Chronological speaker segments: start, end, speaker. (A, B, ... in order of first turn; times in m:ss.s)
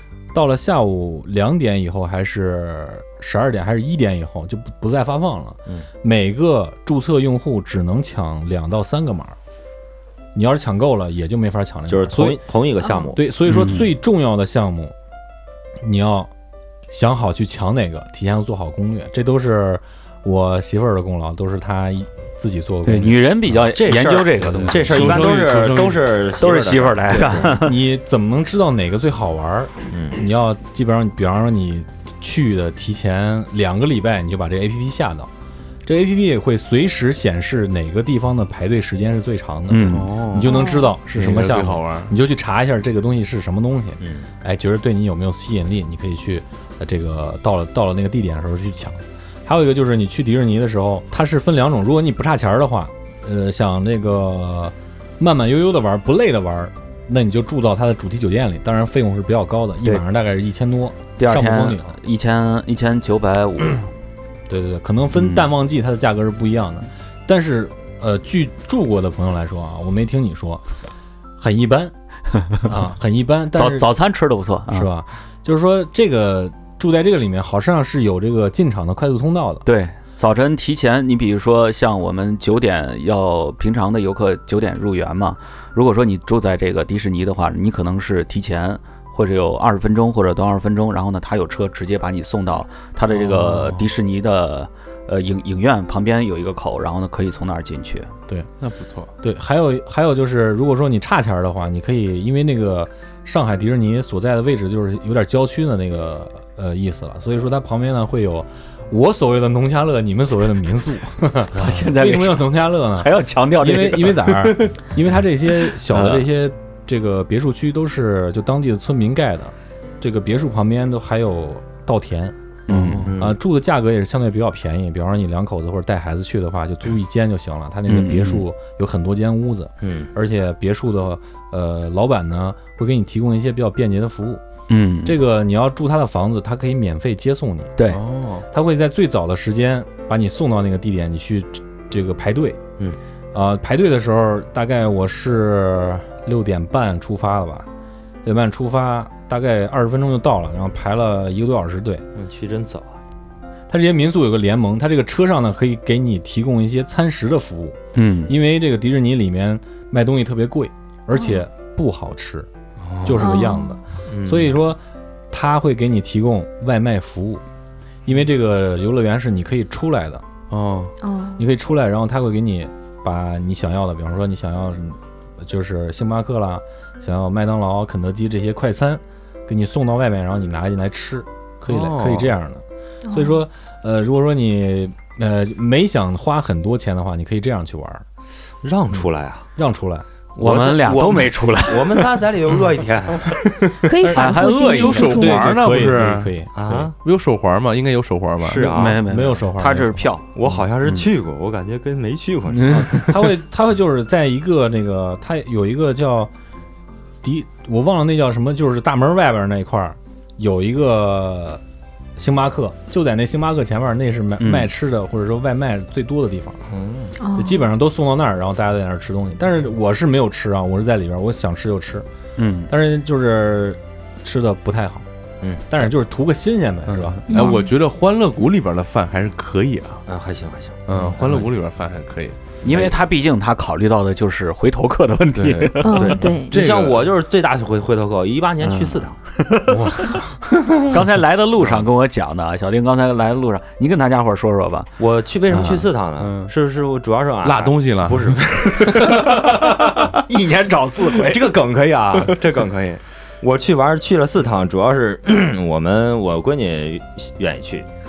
0:00.3-0:09.4 A
0:10.3-0:12.4 A
0:11.9-0:13.2 B
0:13.1-0:14.9 A
0:13.5-0:13.9 C
0:15.8-0:16.3 A
0:16.9-0:23.2 A
0:22.8-0:25.4 C
0:23.7-0:27.4 B
0:24.4-0:24.8 A
0:24.8-0:26.0 D
0:26.4-0:27.8 C
0:27.2-0:35.3 A
0:29.9-0:30.2 B
0:35.8-1:01.9 A
0:39.7-0:40.1 C
0:39.9-0:42.1 D
0:40.4-0:41.0 E
0:44.0-0:44.3 B
1:01.2-1:03.9 C
1:04.5-1:10.6 A
1:05.2-1:05.4 C
1:11.4-1:11.9 A
1:12.6-1:13.9 A
1:13.5-1:14.9 C
1:14.7-1:19.6 A
1:19.6-1:38.1 C
1:33.3-1:33.8 A
1:38.6-1:39.1 D
1:39.2-2:02.4 A
1:51.5-1:54.7 C
1:55.7-1:56.3 C
2:02.7-2:03.1 C
2:03.0-2:03.4 B
2:03.2-2:14.4 A
2:07.9-2:08.4 C
2:09.8-2:10.1 B
2:14.7-2:15.2 C
2:15.0-2:17.7 A
2:17.8-2:18.0 C
2:17.9-2:18.5 D
2:18.5-2:22.6 A
2:23.3-2:27.7 A
2:28.2-2:32.0 A
2:32.1-2:33.0 B
2:33.7-2:42.5 A
2:37.9-2:38.3 C
2:41.1-2:41.4 E
2:42.8-2:43.2 D
2:43.0-2:44.8 A
2:43.2-2:43.8 E
2:44.1-2:44.5 B
2:45.3-2:47.4 A
2:48.0-2:50.2 A
2:50.5-2:50.9 D
2:51.0-2:51.4 E
2:51.4-3:08.0 A
3:01.6-3:02.3 D
3:03.0-3:03.4 E
3:08.6-3:09.5 B
3:09.6-3:10.0 A
3:10.4-3:12.2 C
3:10.4-3:13.4 B
3:13.8-3:15.4 E
3:14.1-3:14.5 A
3:14.1-3:15.6 C
3:14.6-3:18.7 D
3:15.0-3:16.8 A
3:16.5-3:16.9 B
3:18.4-3:19.0 B
3:18.7-3:21.1 C
3:19.0-3:20.0 A
3:20.3-3:23.1 B
3:22.9-3:26.3 A
3:27.2-3:31.6 A
3:32.2-3:36.6 A
3:34.4-3:34.7 C
3:36.7-3:37.1 B
3:37.2-3:37.7 E
3:37.4-3:42.0 A
3:42.4-3:42.7 C
3:42.7-3:45.0 A
3:45.7-3:47.2 A
3:46.9-3:50.0 D
3:47.3-3:47.7 E
3:50.1-3:51.5 B
3:50.9-3:52.4 D
3:52.6-3:56.2 C
3:52.7-3:52.9 B
3:55.4-3:56.0 D
3:55.8-3:56.5 E
3:55.9-3:59.2 B
3:56.5-3:57.1 D
3:58.6-4:00.2 C
4:00.9-4:04.9 C
4:05.0-4:09.7 B
4:05.5-4:05.8 C
4:06.2-4:06.5 D
4:07.4-4:10.2 D
4:09.0-4:11.6 C
4:11.1-4:17.9 B